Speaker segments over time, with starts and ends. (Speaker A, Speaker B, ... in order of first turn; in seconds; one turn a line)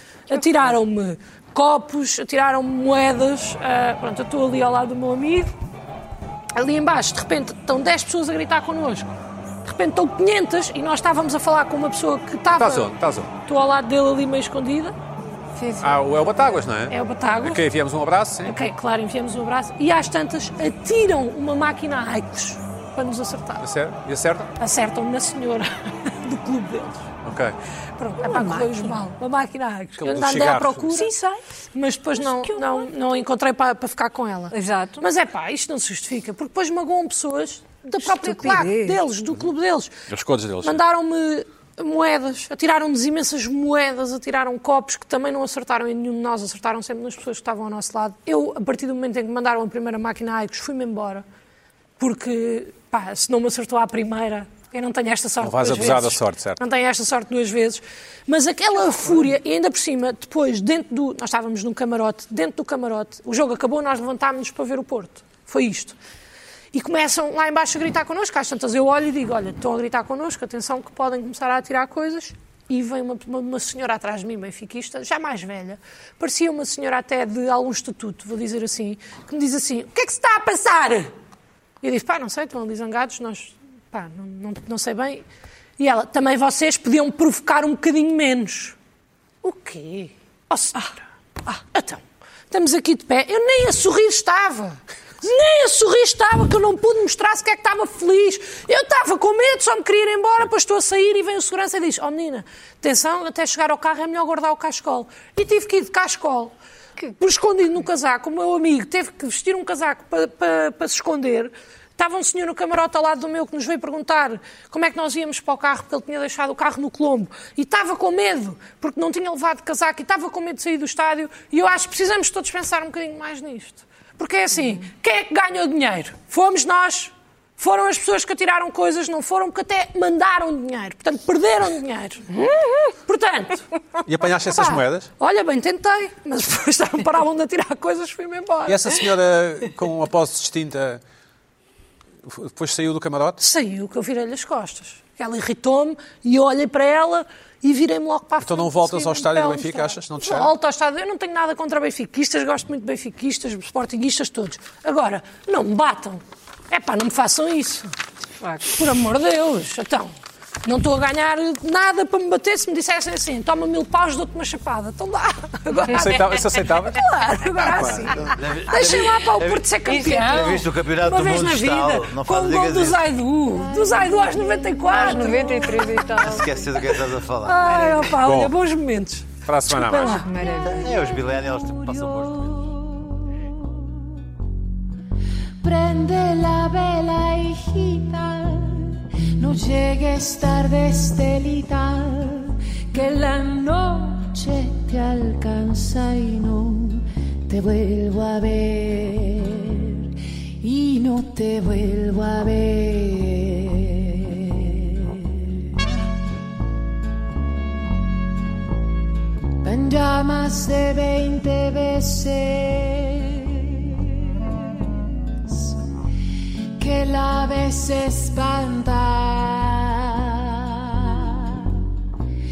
Speaker A: 0.3-5.5
Speaker A: 6.5-14.9
Speaker B: 12.5-13.3
Speaker C: 15.6-15.9
Speaker B: 15.8-18.6
Speaker A: 16.9-17.6
Speaker A: 18.4-23.6
Speaker B: 23.6-24.5
Speaker A: 24.6-27.1
Speaker B: 27.2-27.6
Speaker A: 28.0-31.2
Speaker C: 28.2-28.9
Speaker B: 30.0-30.9
Speaker C: 30.9-31.4
Speaker A: 31.7-40.0
Speaker C: 32.2-32.9
Speaker C: 34.5-35.1
Speaker C: 38.0-39.0
Speaker B: 40.1-40.8
Speaker A: 40.6-51.2
Speaker A: 52.0-66.0
Speaker B: 55.4-56.6
Speaker A: 66.7-81.1
Speaker A: 81.8-85.2
Speaker A: 85.8-88.8
Speaker A: 89.4-90.9
Speaker A: 91.6-106.5
Speaker A: 107.2-133.7
Speaker B: 134.1-135.1
Speaker A: 134.5-138.9
Speaker B: 138.7-141.0
Speaker B: 142.2-143.4
Speaker A: 143.4-157.9
Speaker B: 148.4-150.5
Speaker C: 158.4-158.7
Speaker A: 158.6-176.0
Speaker B: 165.9-167.0
Speaker B: 167.6-168.1
Speaker D: 168.3-173.1
Speaker C: 169.9-170.2
Speaker C: 174.9-176.5
Speaker D: 176.2-178.1
Speaker A: 177.4-180.3
Speaker B: 178.2-178.5
Speaker B: 179.4-180.2
Speaker C: 179.9-181.0
Speaker E: 180.4-183.9
Speaker D: 180.6-182.7
Speaker E: 185.6-205.5
Speaker E: 209.6-215.8
Speaker E: 216.8-221.8